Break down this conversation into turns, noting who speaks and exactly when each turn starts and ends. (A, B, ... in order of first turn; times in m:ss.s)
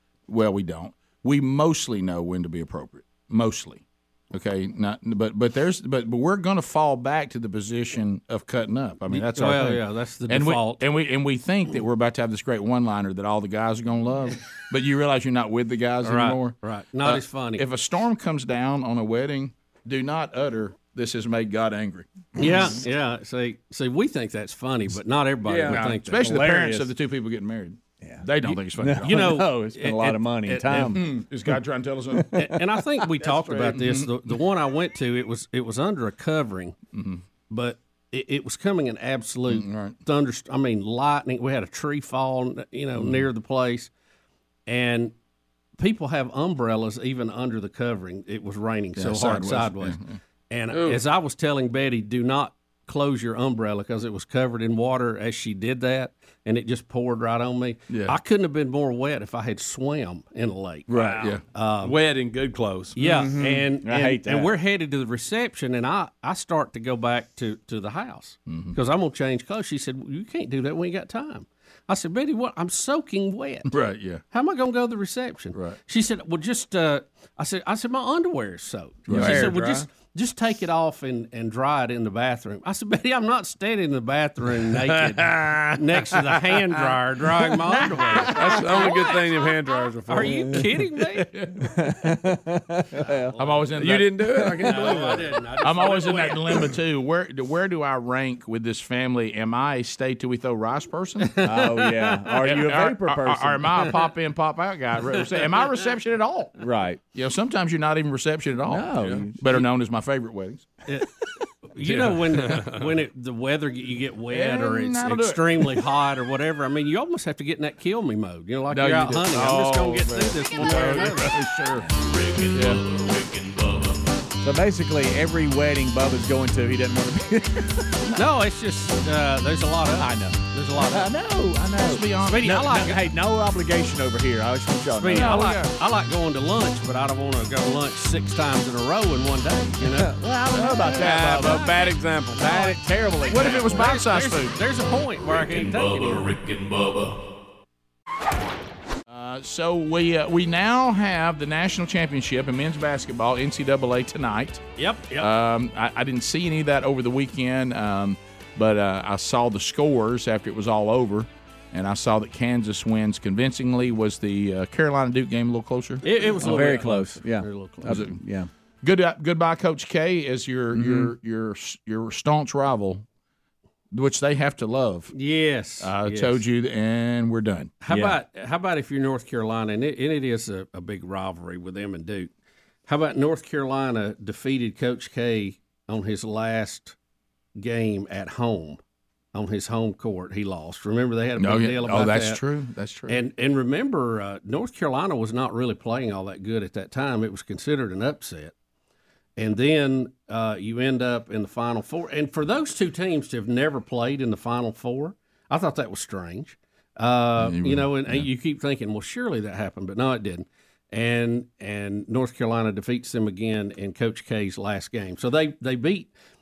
0:00.3-0:22.7 A
0:09.1-0:10.8 B
0:16.0-0:17.6 B
0:22.4-0:26.3 B
0:25.4-0:25.8 C
0:25.7-0:29.3 A
0:26.2-0:26.9 D
0:28.0-0:31.1 D
0:29.0-0:30.9 B
0:30.8-0:32.6 A
0:32.3-0:36.8 B
0:33.4-0:34.2 A
0:36.9-0:37.2 A
0:37.5-0:43.9 B
0:39.5-0:40.0 A
0:43.0-0:43.2 A
0:44.7-0:45.1 B
0:45.8-0:50.0 B
0:48.9-0:50.2 A
0:50.5-1:00.9 B
0:50.7-0:51.0 C
0:57.9-0:58.2 A
1:00.9-1:01.4 A
1:00.9-1:03.0 C
1:01.5-1:02.0 B
1:03.0-1:13.8 B
1:03.0-1:04.5 D
1:08.5-1:08.8 A
1:13.7-1:14.2 A
1:14.3-1:31.4 B
1:19.1-1:19.5 A
1:19.1-1:19.8 D
1:19.2-1:19.8 C
1:24.7-1:26.4 C
1:28.1-1:30.7 C
1:31.6-1:33.3 D
1:33.0-1:33.7 B
1:33.4-1:34.2 A
1:33.7-1:36.2 C
1:34.6-1:36.7 B
1:35.6-1:41.5 A
1:41.2-1:42.2 B
1:41.4-1:43.9 D
1:42.4-1:46.5 A
1:45.2-1:45.5 B
1:46.6-1:47.0 D
1:47.1-1:50.7 A
1:48.6-1:49.4 D
1:51.7-2:01.4 B
1:51.8-1:52.9 C
1:54.3-1:55.9 A
1:58.7-2:01.9 A
2:01.9-2:04.1 E
2:02.5-2:02.8 A
2:04.4-2:08.2 D
2:08.2-2:11.1 B
2:10.0-2:15.5 D
2:11.8-2:12.6 A
2:12.2-2:13.1 B
2:14.9-2:20.1 B
2:15.1-2:15.7 A
2:19.8-2:23.9 D
2:20.5-2:21.8 A
2:20.9-2:22.6 C
2:22.3-2:22.8 B
2:23.3-2:24.6 A
2:23.4-2:26.3 B
2:25.3-2:27.2 E
2:29.1-2:34.6 A
2:34.8-2:35.3 B
2:35.2-2:46.8 A
2:46.0-2:48.0 B
2:46.4-2:48.5 D
2:47.8-2:48.1 A
2:48.8-2:53.0 A
2:50.7-2:51.1 D
2:53.9-2:55.1 A
2:55.1-2:56.4 B
2:55.8-2:57.7 A
2:57.8-3:02.3 B
2:57.9-2:58.2 D
3:02.9-3:06.9 B
3:07.6-3:08.8 B
3:09.3-3:12.4 B
3:11.4-3:13.2 A
3:13.1-3:18.5 B
3:19.4-3:36.1 B
3:27.4-3:28.3 A